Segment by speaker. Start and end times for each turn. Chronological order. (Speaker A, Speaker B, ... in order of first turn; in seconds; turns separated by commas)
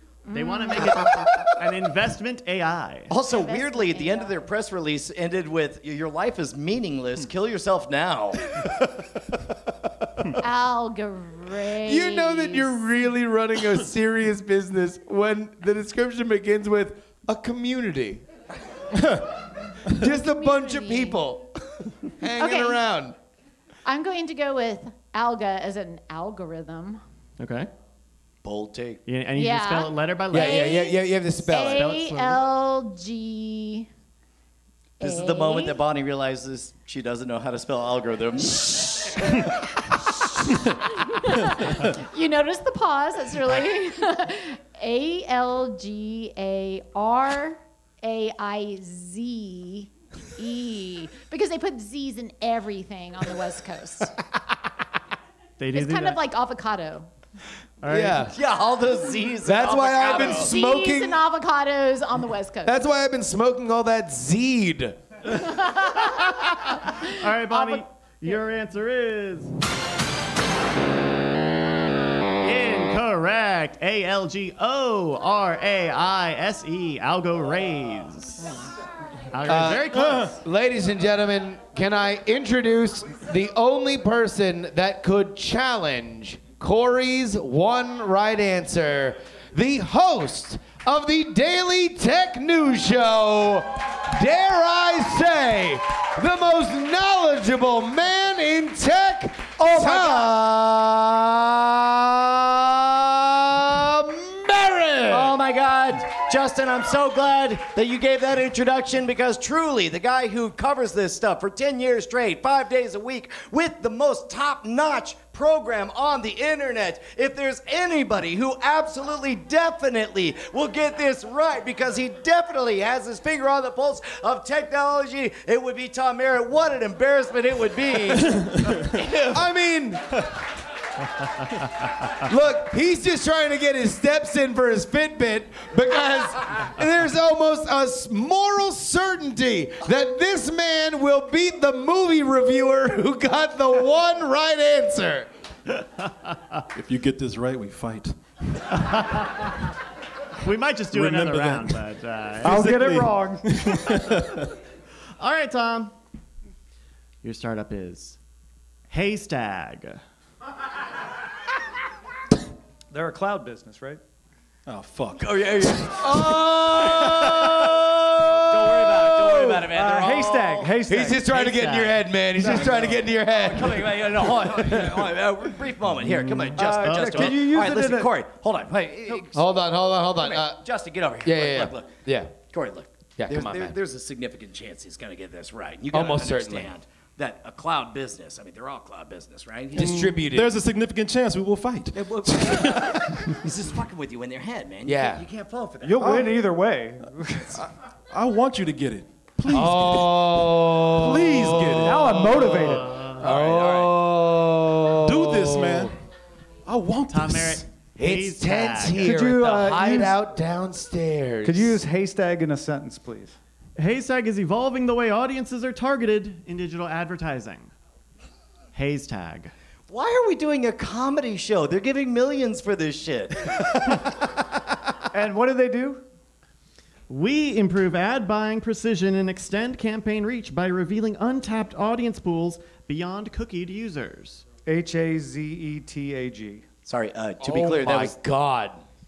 Speaker A: 0.3-1.1, Speaker B: 0.3-3.1, Speaker C: 3.1-8.5, Speaker A: 3.2-4.4, Speaker A: 10.4-12.8, Speaker D: 11.8-18.2, Speaker E: 18.9-19.3, Speaker D: 19.9-23.1, Speaker A: 20.0-21.2, Speaker A: 22.4-22.8, Speaker A: 23.8-27.0, Speaker B: 27.4-27.7, Speaker C: 28.4-29.0, Speaker B: 29.1-30.8, Speaker A: 29.4-33.9, Speaker D: 30.3-31.9, Speaker B: 31.6-32.4, Speaker A: 35.0-35.8, Speaker C: 35.0-39.4, Speaker A: 41.0-54.1, Speaker B: 55.6-56.2, Speaker A: 55.7-57.1, Speaker B: 57.8-58.3, Speaker D: 57.9-58.3, Speaker C: 58.3-60.5, Speaker D: 59.4-61.2, Speaker A: 60.2-62.8, Speaker D: 62.6-65.1, Speaker A: 65.8-66.2, Speaker B: 67.0-69.5, Speaker A: 67.5-67.8, Speaker B: 72.4-78.6, Speaker B: 79.3-80.4, Speaker D: 79.4-105.4, Speaker E: 79.9-80.3, Speaker C: 99.6-100.4, Speaker C: 105.1-128.7, Speaker E: 128.3-129.0, Speaker D: 129.0-130.2, Speaker D: 132.2-145.3, Speaker E: 146.7-148.6, Speaker B: 148.8-149.5, Speaker B: 150.4-152.6, Speaker E: 150.9-151.8, Speaker E: 152.4-154.5, Speaker F: 152.4-153.5, Speaker B: 155.2-155.9, Speaker B: 157.2-158.2, Speaker B: 158.9-160.0, Speaker F: 162.9-164.0, Speaker E: 164.7-165.9, Speaker C: 165.2-167.5, Speaker D: 166.0-169.6, Speaker C: 168.2-170.8, Speaker F: 169.6-171.4, Speaker D: 170.8-175.1, Speaker B: 171.4-171.8, Speaker C: 172.4-179.6, Speaker B: 176.0-177.4, Speaker F: 176.6-178.1, Speaker D: 179.1-180.6, Speaker C: 180.2-181.9, Speaker D: 181.2-182.3, Speaker C: 182.4-190.0, Speaker D: 183.2-183.8, Speaker D: 185.9-186.7, Speaker D: 189.7-190.6, Speaker E: 189.8-193.3, Speaker C: 191.9-196.1, Speaker D: 194.8-195.2, Speaker F: 195.8-197.6, Speaker E: 196.0-196.4, Speaker E: 197.5-200.3, Speaker D: 199.4-205.9, Speaker E: 200.9-202.2, Speaker F: 201.8-202.9, Speaker B: 202.7-203.2, Speaker C: 203.2-203.9, Speaker E: 205.0-206.0, Speaker E: 206.7-207.6, Speaker B: 207.1-209.1, Speaker D: 208.0-211.8, Speaker F: 209.0-210.1, Speaker F: 211.4-213.3, Speaker B: 213.8-217.7, Speaker B: 218.7-219.5, Speaker C: 219.9-223.7, Speaker F: 225.1-226.0, Speaker B: 227.1-234.4, Speaker F: 234.7-236.6, Speaker C: 236.8-238.2, Speaker D: 237.4-238.8